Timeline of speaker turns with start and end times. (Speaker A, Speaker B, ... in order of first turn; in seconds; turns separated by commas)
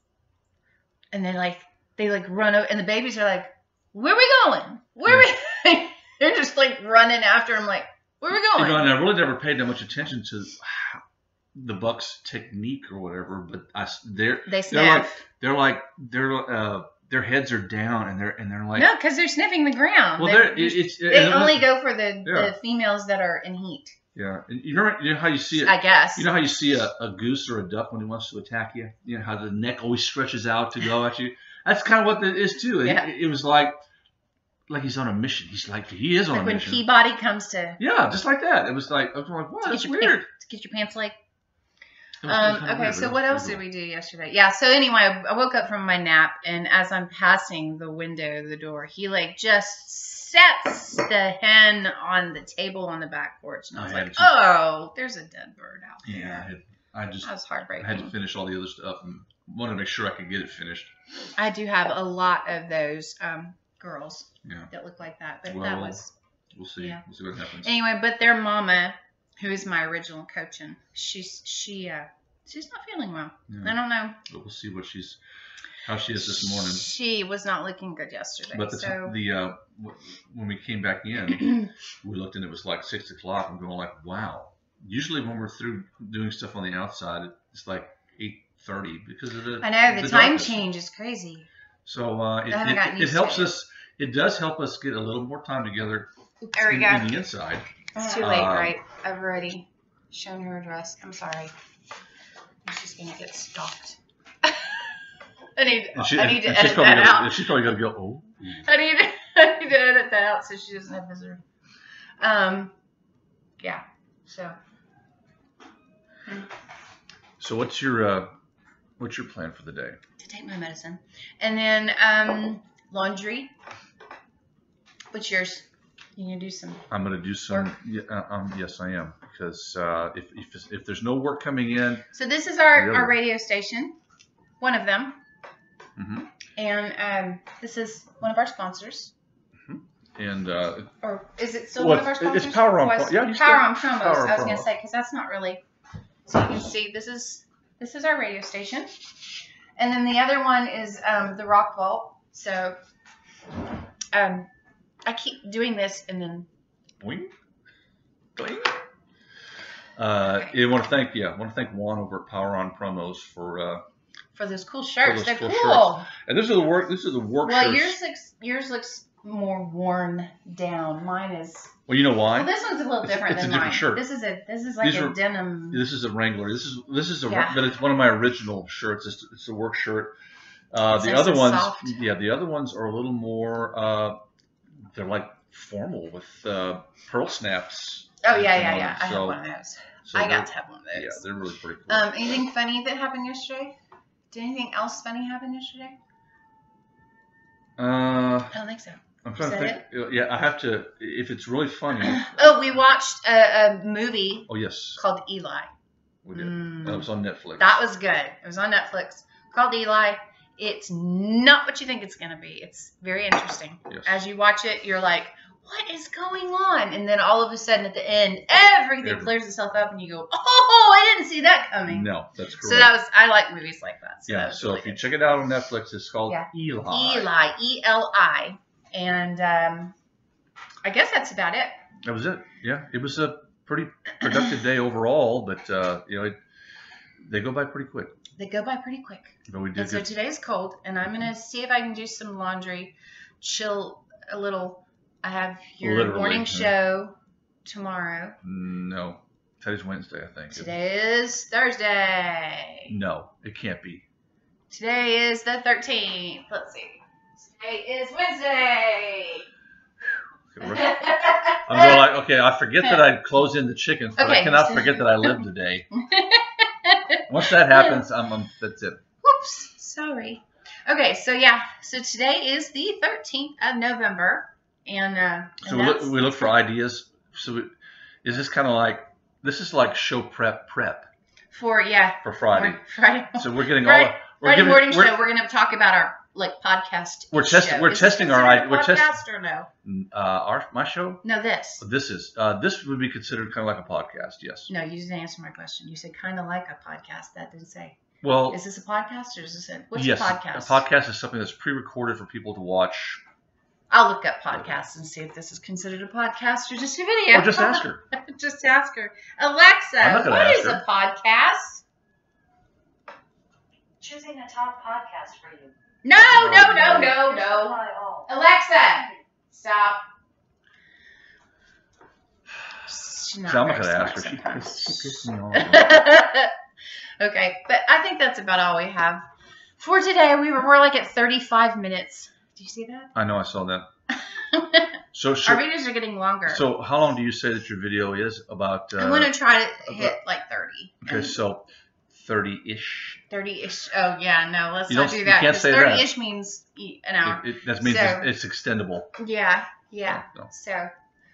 Speaker A: 1.1-9.0, Speaker B: 8.5-18.9, Speaker A: 14.4-15.2, Speaker A: 18.7-23.9, Speaker B: 20.2-21.7, Speaker B: 22.2-22.5, Speaker B: 24.1-33.8, Speaker A: 25.6-26.3, Speaker A: 32.8-33.1, Speaker B: 34.7-36.8, Speaker A: 36.3-37.8, Speaker B: 37.8-40.3, Speaker A: 39.6-41.2, Speaker B: 42.2-43.6, Speaker A: 42.2-56.5, Speaker B: 53.7-54.4, Speaker B: 56.0-60.9, Speaker A: 57.2-58.1, Speaker A: 61.4-66.1, Speaker B: 64.4-64.7, Speaker B: 65.5-66.0, Speaker B: 66.5-67.7, Speaker A: 66.8-67.0, Speaker A: 67.6-74.2, Speaker B: 73.5-75.2, Speaker B: 75.8-76.9, Speaker A: 76.2-79.2, Speaker B: 78.5-90.6, Speaker A: 89.6-91.5, Speaker B: 91.8-98.7, Speaker A: 92.5-93.5, Speaker A: 96.4-97.2, Speaker A: 97.9-101.5, Speaker A: 102.6-104.9, Speaker A: 105.5-107.4, Speaker B: 106.0-108.7, Speaker A: 108.6-111.4, Speaker A: 112.2-112.7, Speaker A: 113.6-114.5, Speaker B: 117.4-118.3, Speaker B: 119.0-120.0, Speaker A: 120.2-123.5, Speaker A: 125.1-126.8, Speaker B: 126.9-132.1, Speaker A: 132.1-133.9, Speaker B: 132.7-133.2, Speaker A: 134.6-135.2, Speaker B: 135.9-136.3, Speaker A: 136.6-139.1, Speaker B: 139.6-140.9, Speaker A: 141.0-145.6, Speaker B: 141.8-144.7, Speaker A: 146.2-148.9, Speaker A: 149.8-152.8, Speaker A: 154.1-154.5, Speaker A: 155.1-156.5, Speaker B: 157.0-157.3, Speaker B: 158.3-158.8, Speaker B: 160.0-163.8, Speaker A: 160.2-160.6, Speaker A: 164.3-166.1, Speaker B: 165.0-168.0, Speaker A: 167.4-171.7, Speaker B: 171.9-172.5, Speaker A: 172.3-175.8, Speaker B: 173.0-174.0, Speaker B: 174.8-175.2, Speaker B: 175.7-180.1, Speaker A: 177.2-177.6, Speaker B: 180.7-184.2, Speaker A: 180.9-182.0, Speaker B: 184.8-189.4, Speaker A: 188.2-191.2, Speaker B: 190.0-192.1, Speaker A: 191.9-193.7, Speaker A: 194.3-196.0, Speaker B: 197.8-198.6, Speaker A: 198.5-199.8, Speaker B: 199.2-202.3, Speaker A: 202.0-205.7, Speaker B: 204.5-205.0, Speaker B: 206.2-207.8, Speaker A: 206.3-207.1, Speaker A: 207.6-222.1, Speaker B: 213.9-214.2, Speaker B: 219.0-219.3, Speaker B: 221.9-222.9, Speaker A: 222.6-225.0, Speaker B: 224.3-227.3, Speaker A: 226.3-229.9, Speaker A: 230.8-231.7, Speaker B: 232.0-236.4, Speaker B: 237.2-238.1, Speaker A: 238.3-248.4, Speaker B: 239.5-240.1, Speaker B: 245.8-246.7, Speaker B: 248.4-250.7, Speaker A: 250.5-252.9, Speaker B: 252.9-254.0, Speaker A: 254.7-259.4, Speaker B: 260.5-265.9, Speaker A: 260.6-262.1, Speaker A: 264.2-268.0, Speaker B: 267.3-269.0, Speaker A: 269.2-276.6, Speaker B: 275.6-277.7, Speaker B: 278.2-281.1, Speaker A: 281.5-289.7, Speaker B: 282.2-282.8, Speaker B: 283.3-285.2, Speaker B: 287.3-289.1, Speaker B: 289.8-291.2, Speaker A: 291.2-291.8, Speaker B: 291.8-294.7, Speaker A: 294.7-300.8, Speaker B: 298.2-298.6, Speaker B: 299.9-303.2, Speaker A: 303.9-311.8, Speaker B: 307.3-308.0, Speaker B: 310.0-310.8, Speaker C: 314.0-315.8, Speaker A: 316.0-320.0, Speaker B: 316.2-317.2, Speaker C: 316.6-319.2, Speaker A: 322.9-326.5, Speaker B: 323.4-326.0, Speaker A: 327.2-329.2, Speaker A: 329.8-333.1, Speaker B: 333.1-333.9, Speaker A: 334.1-336.6, Speaker B: 335.1-335.6, Speaker B: 336.5-339.3, Speaker A: 339.0-341.4, Speaker B: 339.9-340.1, Speaker B: 341.0-343.2, Speaker A: 343.3-348.3, Speaker B: 344.9-346.1, Speaker B: 347.2-349.1, Speaker A: 349.2-350.9, Speaker B: 350.1-350.5